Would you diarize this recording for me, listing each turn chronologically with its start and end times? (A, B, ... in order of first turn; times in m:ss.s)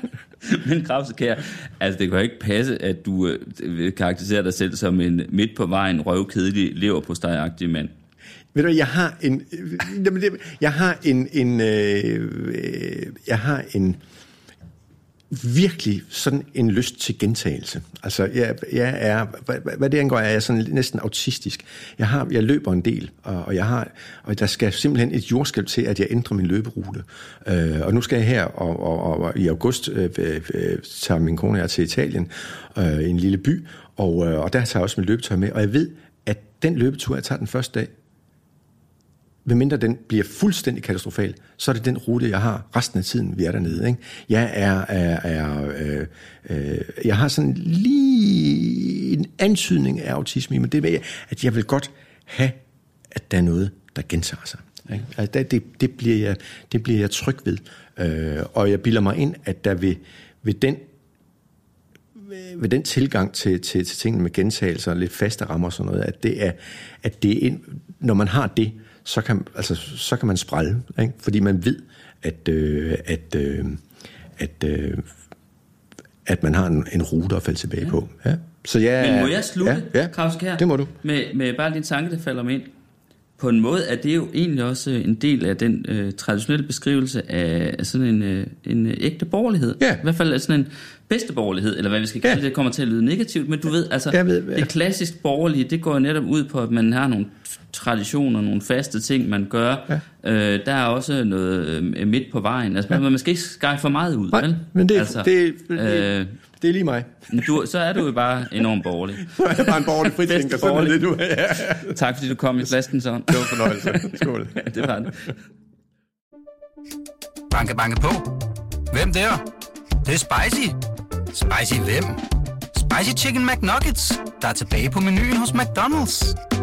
0:00.4-0:07.9 A
0:08.5-0:14.0 B
0:15.3-0:37.9 B
0:39.4-1:00.9 B
1:02.2-1:13.8 B
1:14.4-1:15.1 B
1:16.2-1:20.9 B
1:19.0-1:22.7 A
1:23.4-1:46.4 A
1:34.1-1:34.7 B
1:44.3-1:47.5 B
1:47.3-1:49.4 A
1:49.2-1:52.0 B
1:49.9-1:51.0 A
1:51.7-1:55.3 A
1:53.3-1:54.9 B
1:57.5-1:58.4 C
1:58.9-1:59.4 C
2:00.0-2:00.8 C
2:01.3-2:06.4 C